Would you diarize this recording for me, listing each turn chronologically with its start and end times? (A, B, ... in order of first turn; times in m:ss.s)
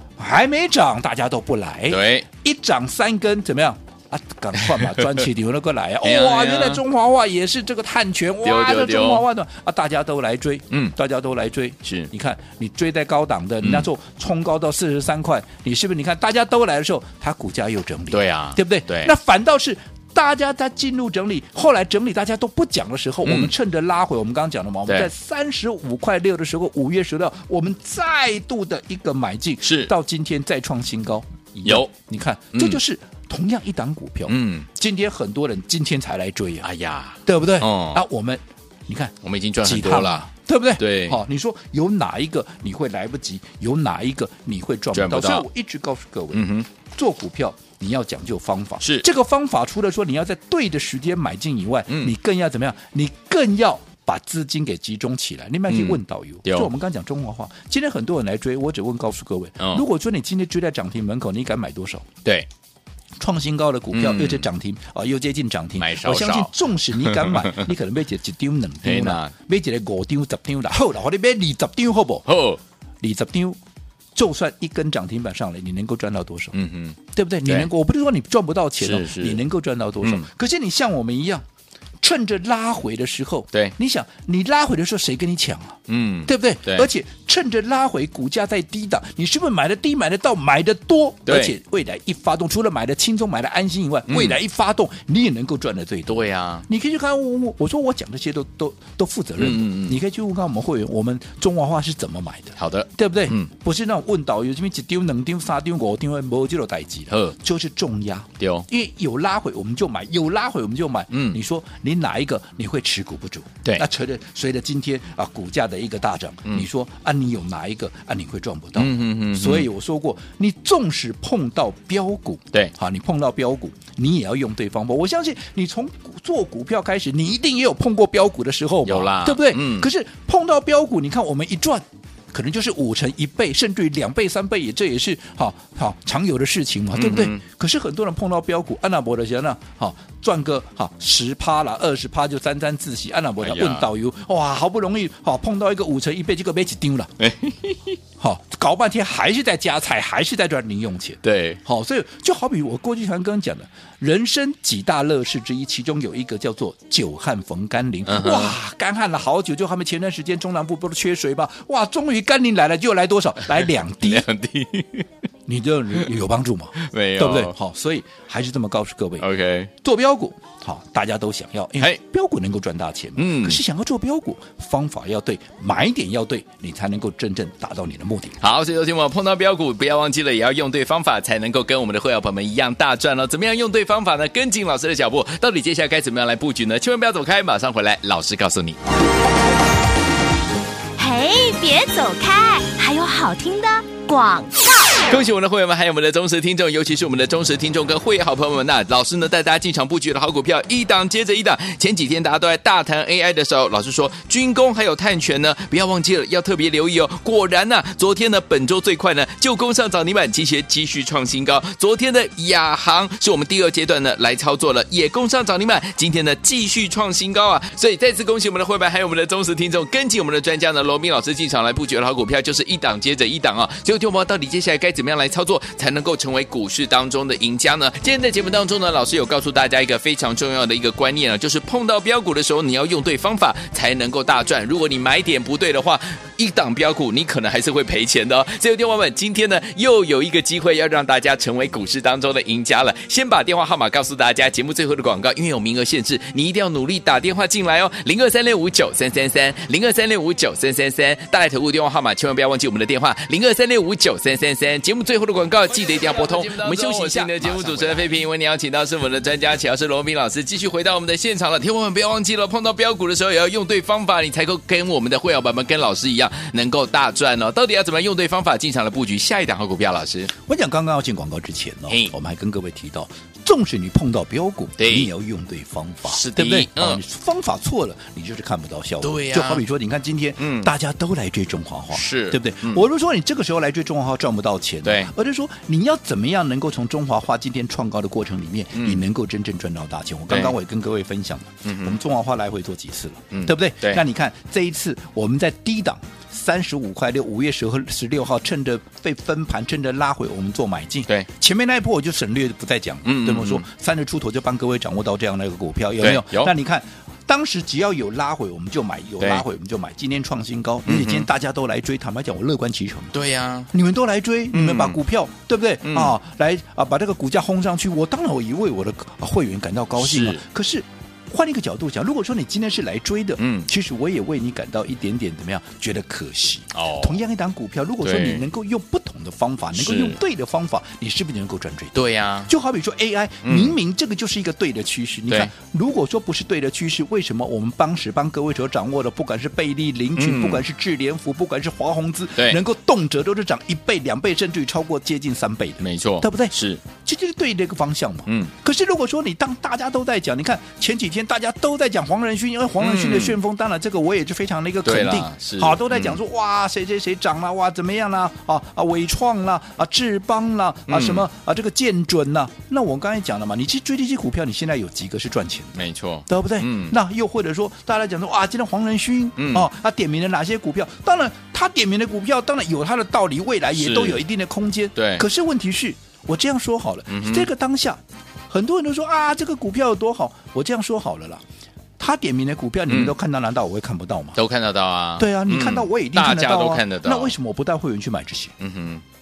0:00.2-0:36.7 A
0:01.9-0:02.2 B
0:04.6-0:05.1 B
0:06.0-0:06.8 B
0:08.4-0:09.2 B
0:11.8-0:12.1 B
0:13.6-0:13.9 B
0:18.1-0:19.1 B
0:23.2-0:23.5 B
0:29.6-0:29.9 B
0:31.6-0:31.9 B
0:32.5-0:32.8 B
0:34.3-0:34.7 B
0:36.6-0:38.0 B
0:37.2-1:02.1 A
0:39.2-0:40.2 B
0:40.8-0:41.2 B
0:44.9-0:45.4 B
0:46.3-0:46.7 B
0:48.8-0:49.0 B
0:51.9-0:52.1 B
0:55.7-0:56.7 B
1:03.2-1:12.3 A
1:03.9-1:04.5 B
1:05.8-1:07.7 B
1:08.8-1:09.3 B
1:12.2-1:12.6 B
1:13.0-1:13.6 A
1:14.2-1:16.6 A
1:16.5-1:17.7 B
1:17.1-1:21.4 A
1:18.8-1:19.4 B
1:20.0-1:20.3 B
1:22.0-2:27.2 A
1:25.9-1:26.9 B
1:31.2-1:31.6 B
1:34.1-1:34.4 B
1:36.0-1:36.6 B
1:39.4-1:40.0 B
1:42.6-1:43.5 B
1:48.4-1:48.6 B
1:51.1-1:51.4 B
1:58.7-1:59.7 B
2:08.8-2:09.9 B
2:16.9-2:17.4 B
2:23.4-2:23.9 B
2:27.2-2:27.8 B
2:28.2-2:44.3 A
2:31.2-2:31.6 B
2:38.1-2:38.6 B
2:43.4-2:45.1 B
2:45.4-2:49.3 A
2:46.7-2:47.5 B
2:49.2-2:49.7 B
2:49.8-2:58.4 A
2:53.2-2:53.6 B
2:58.4-3:08.8 B
3:11.0-3:15.0 C
3:15.0-4:30.3 B
4:16.7-4:18.0 A
4:30.4-5:13.1 A
4:31.9-4:32.1 B
4:34.8-4:35.1 B
4:36.0-4:37.0 B
4:39.0-4:39.6 B
4:40.4-4:40.7 B
4:41.9-4:42.8 B
4:44.8-4:45.1 B
4:48.7-4:49.0 B
4:50.3-4:50.6 B
4:51.6-4:52.0 B
4:53.3-4:54.0 B
5:03.0-5:03.6 B
5:06.0-5:06.5 B
5:10.8-5:11.3 B
5:13.1-5:13.7 B
5:13.7-6:21.4 A
5:14.5-5:15.0 B
5:15.8-5:16.2 B
5:20.0-5:20.4 B
5:23.4-5:23.7 B
5:26.7-5:27.2 B
5:28.0-5:28.4 B
5:29.7-5:30.2 B
5:31.9-5:32.5 B
5:33.4-5:33.8 B
5:40.2-5:40.6 B
5:45.8-5:46.8 B
5:48.2-5:48.5 B
5:52.8-5:53.4 B
5:54.8-5:56.2 B
6:00.9-6:01.2 B
6:05.7-6:07.0 B
6:09.4-6:09.7 B
6:13.7-6:14.2 B
6:15.0-6:15.2 B
6:17.1-6:17.5 B
6:22.0-6:24.4 A
6:22.9-6:23.1 B
6:24.3-6:27.3 B
6:25.2-6:28.5 A
6:28.6-6:29.0 B